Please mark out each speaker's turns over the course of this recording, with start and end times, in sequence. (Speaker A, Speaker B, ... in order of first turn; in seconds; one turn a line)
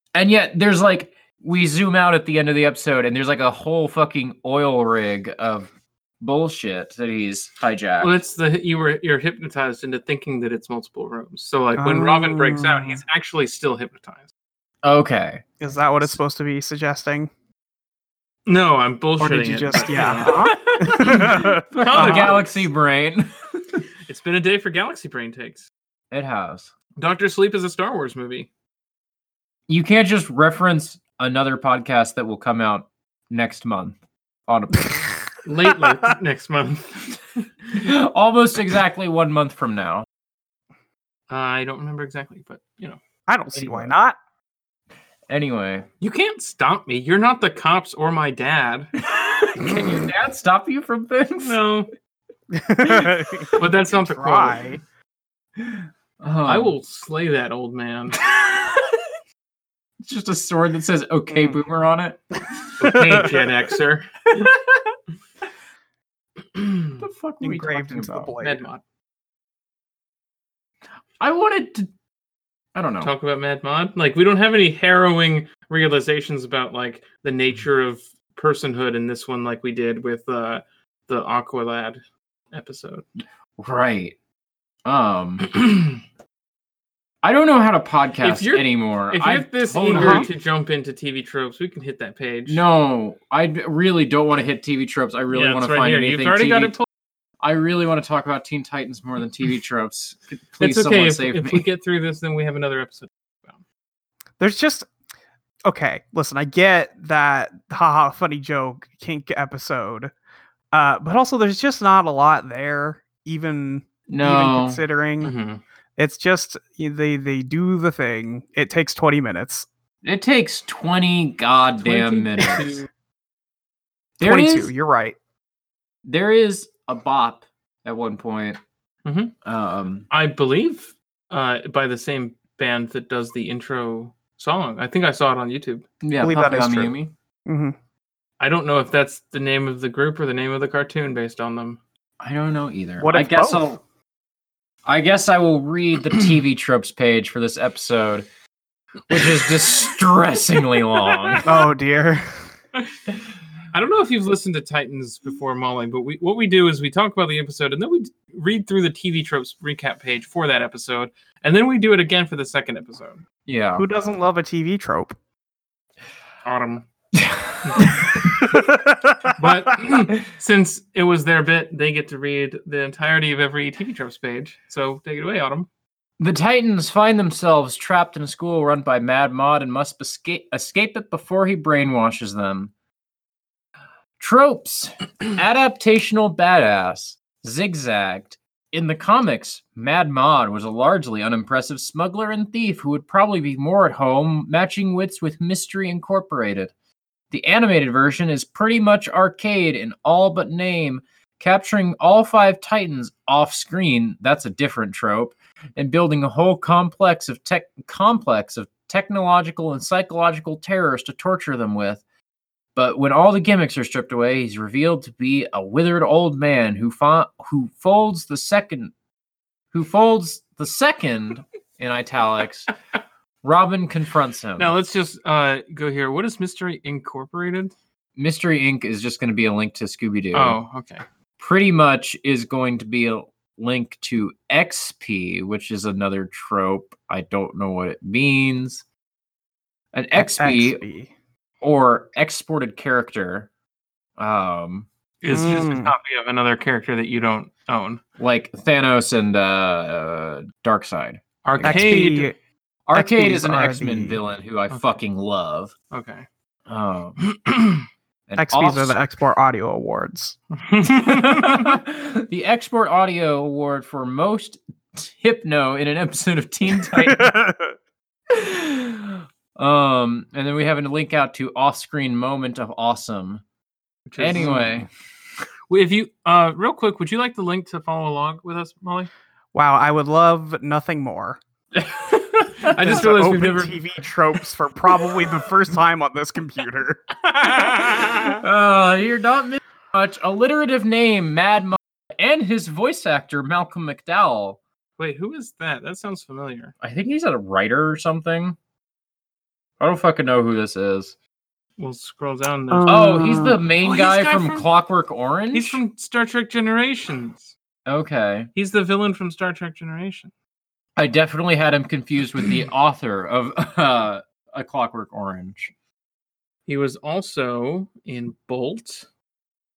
Speaker A: 0.1-8.1
Speaker B: 8.0-14.3
Speaker C: 11.8-13.0
Speaker A: 14.8-15.4
Speaker C: 15.6-17.3
Speaker B: 18.5-22.6
Speaker C: 19.2-22.4
Speaker A: 20.5-23.8
Speaker B: 24.1-25.7
Speaker A: 26.1-26.7
Speaker B: 27.0-28.5
Speaker A: 29.7-35.1
Speaker B: 35.4-37.2
Speaker A: 37.7-40.1
Speaker B: 41.3-43.0
Speaker C: 43.3-44.2
Speaker A: 43.5-43.9
Speaker A: 45.3-45.9
Speaker B: 46.0-48.9
Speaker A: 49.0-51.6
Speaker B: 51.4-51.9
Speaker C: 52.5-54.8
Speaker B: 53.5-54.8
Speaker A: 56.2-56.7
Speaker B: 56.5-58.2
Speaker A: 58.2-59.0
Speaker A: 60.0-62.2
Speaker B: 62.8-64.6
Speaker A: 63.0-63.2
Speaker B: 66.5-67.0
Speaker A: 67.0-68.3
Speaker C: 67.4-68.6
Speaker B: 68.4-68.8
Speaker A: 71.2-71.9
Speaker A: 72.8-73.1
Speaker B: 73.0-82.0
Speaker B: 82.5-83.0
Speaker A: 83.6-84.2
Speaker A: 84.8-85.5
Speaker B: 85.5-86.0
Speaker A: 87.2-90.3
Speaker B: 88.2-92.6
Speaker C: 89.9-90.3
Speaker A: 92.5-96.8
Speaker B: 95.3-96.9
Speaker A: 97.4-101.7
Speaker B: 100.6-103.6
Speaker C: 104.4-104.9
Speaker C: 105.7-110.1
Speaker C: 110.7-115.3
Speaker A: 114.1-114.8
Speaker B: 115.2-115.6
Speaker C: 116.0-119.7
Speaker A: 120.0-122.8
Speaker B: 121.8-122.9
Speaker A: 124.2-124.7
Speaker C: 124.2-125.2
Speaker A: 126.0-128.6
Speaker B: 129.1-129.3
Speaker A: 129.4-130.1
Speaker B: 130.1-135.9
Speaker A: 136.0-137.1
Speaker C: 136.2-136.9
Speaker C: 137.5-137.8
Speaker B: 138.4-141.8
Speaker A: 142.2-143.8
Speaker C: 143.0-143.7
Speaker A: 144.8-148.3
Speaker A: 149.1-151.5
Speaker C: 151.4-152.4
Speaker B: 153.7-163.2
Speaker A: 163.5-163.9
Speaker C: 163.8-165.2
Speaker B: 166.4-166.9
Speaker A: 167.1-168.2
Speaker B: 167.6-167.9
Speaker C: 168.4-169.3
Speaker B: 169.3-175.7
Speaker A: 176.2-182.7
Speaker A: 184.2-196.7
Speaker A: 197.3-212.0
Speaker A: 212.8-218.9
Speaker A: 219.7-222.7
Speaker A: 223.4-224.7
Speaker B: 224.6-227.7
Speaker A: 228.2-230.6
Speaker B: 230.3-231.0
Speaker A: 231.4-238.8
Speaker A: 239.9-240.8
Speaker C: 240.2-241.1
Speaker A: 241.6-243.5
Speaker A: 244.2-244.9
Speaker B: 245.2-248.0
Speaker C: 245.3-245.9
Speaker A: 248.2-251.9
Speaker B: 251.4-252.3
Speaker C: 251.6-252.3
Speaker A: 252.9-255.7
Speaker C: 252.9-254.2
Speaker B: 255.9-256.3
Speaker A: 256.7-257.2
Speaker B: 257.2-257.8
Speaker A: 258.3-259.0
Speaker C: 258.4-260.4
Speaker B: 260.6-261.7
Speaker A: 261.0-267.3
Speaker C: 267.0-267.8
Speaker A: 268.3-273.4
Speaker B: 274.1-274.6
Speaker A: 274.2-274.9
Speaker B: 275.7-279.1
Speaker C: 279.5-281.4
Speaker A: 281.8-283.1
Speaker B: 282.6-283.8
Speaker C: 282.8-287.7
Speaker B: 287.9-288.2
Speaker A: 288.2-294.6
Speaker B: 295.0-296.7
Speaker A: 296.8-298.6
Speaker A: 299.8-301.1
Speaker B: 301.8-303.2
Speaker C: 302.7-303.6
Speaker A: 302.9-305.8
Speaker B: 303.8-304.7
Speaker B: 305.5-307.5
Speaker A: 307.9-308.5
Speaker B: 308.6-310.3
Speaker A: 311.0-315.7
Speaker B: 316.7-319.1